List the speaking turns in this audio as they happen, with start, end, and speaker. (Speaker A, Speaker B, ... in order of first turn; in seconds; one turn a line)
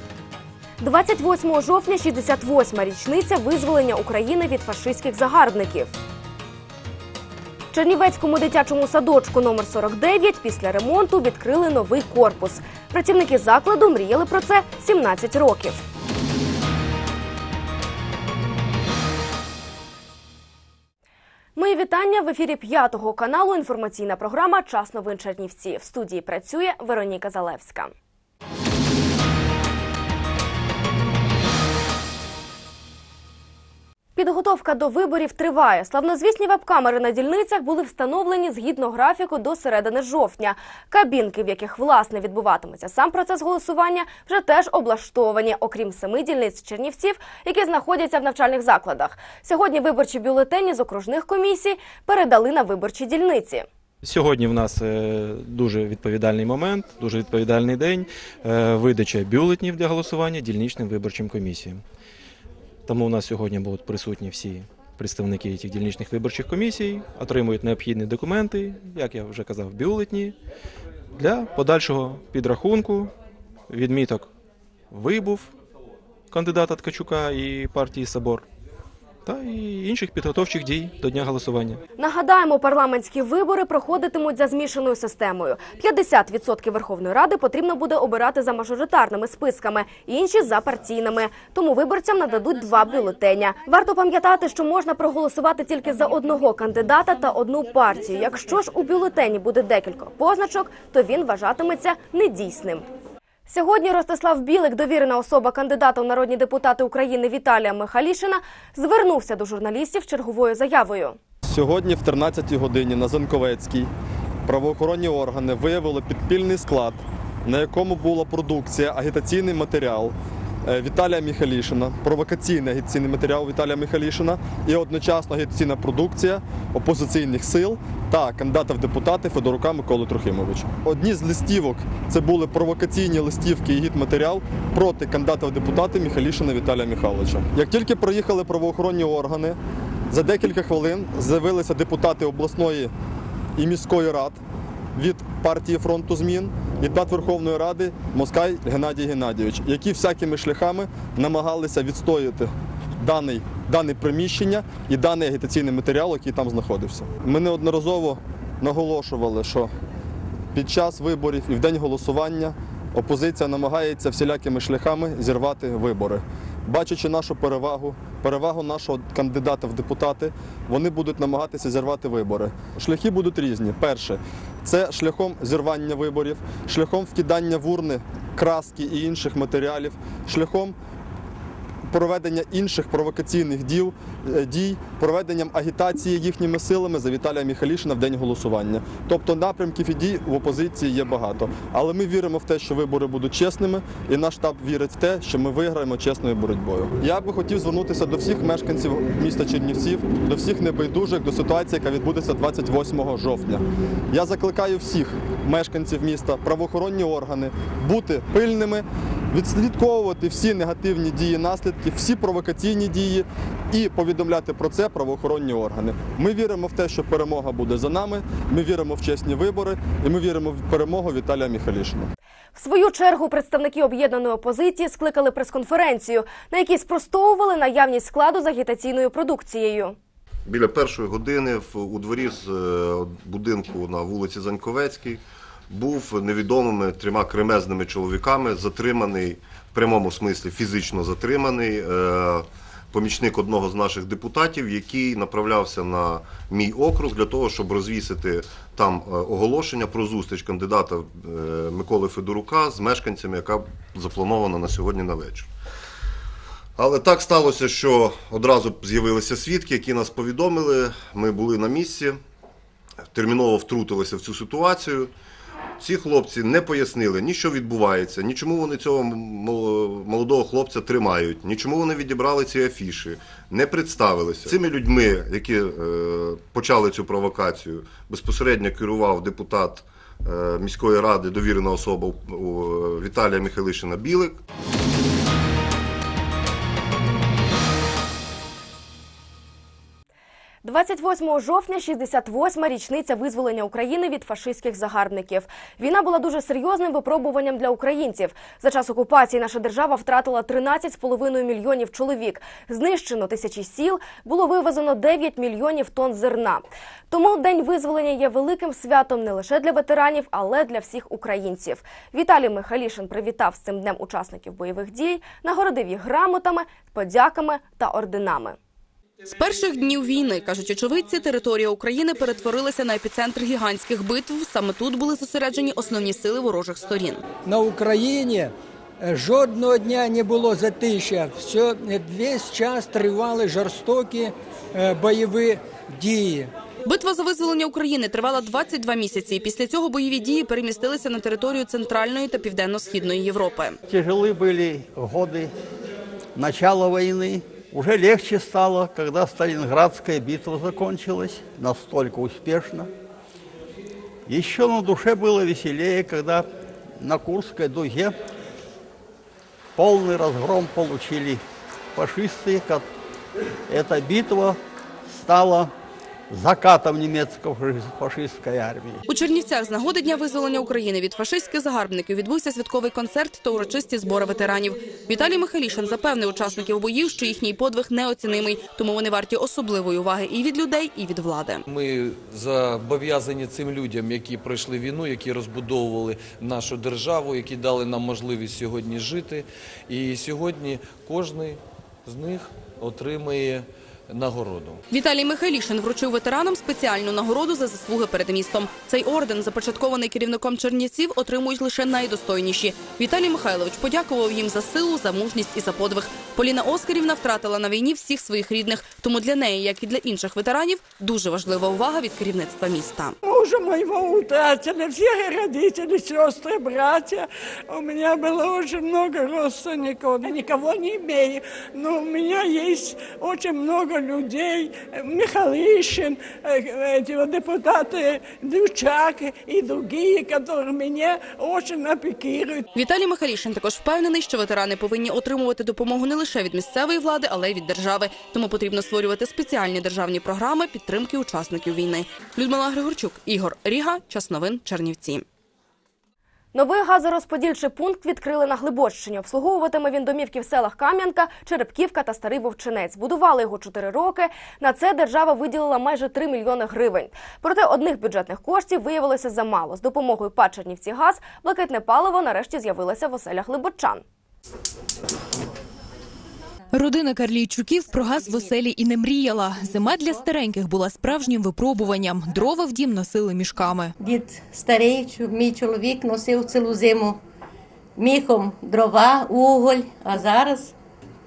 Speaker A: 0.8-6.0
Speaker A: 7.7-15.8
Speaker A: 21.6-27.9
Speaker A: 34.2-53.7
Speaker B: 54.0-61.8
Speaker B: 62.9-70.4
Speaker B: 71.2-73.1
Speaker B: 73.7-74.3
Speaker B: 74.9-75.5
Speaker B: 76.3-78.5
Speaker B: 79.3-81.8
Speaker A: 82.0-102.9
Speaker A: 103.5-111.2
Speaker C: 111.5-113.9
Speaker C: 114.5-120.1
Speaker C: 120.7-139.6
Speaker C: 140.1-142.9
Speaker C: 143.6-144.4
Speaker C: 144.9-159.7
Speaker C: 160.5-180.8
Speaker C: 181.9-222.1
Speaker A: 222.6-229.9
Speaker D: 230.5-255.5
Speaker D: 256.8-262.2
Speaker D: 263.1-265.1
Speaker D: 265.8-284.4
Speaker A: 290.6-318.6
Speaker E: 319.3-327.2
Speaker F: 327.4-328.5
Speaker F: 329.0-336.5
Speaker E: 336.9-343.8
Speaker G: 343.9-345.5
Speaker G: 346.4-352.9
Speaker G: 354.3-356.5
Speaker G: 357.0-358.2
Speaker G: 359.8-361.4
Speaker G: 362.0-362.9
Speaker G: 363.7-364.6
Speaker G: 365.1-365.7
Speaker G: 366.3-369.0
Speaker E: 369.1-381.6
Speaker H: 381.7-394.8
Speaker E: 394.9-413.2
Speaker I: 413.2-432.7
Speaker E: 432.8-445.2
Speaker A: 446.5-464.0
Speaker J: 466.7-473.9
Speaker K: 474.0-477.2
Speaker K: 478.0-480.7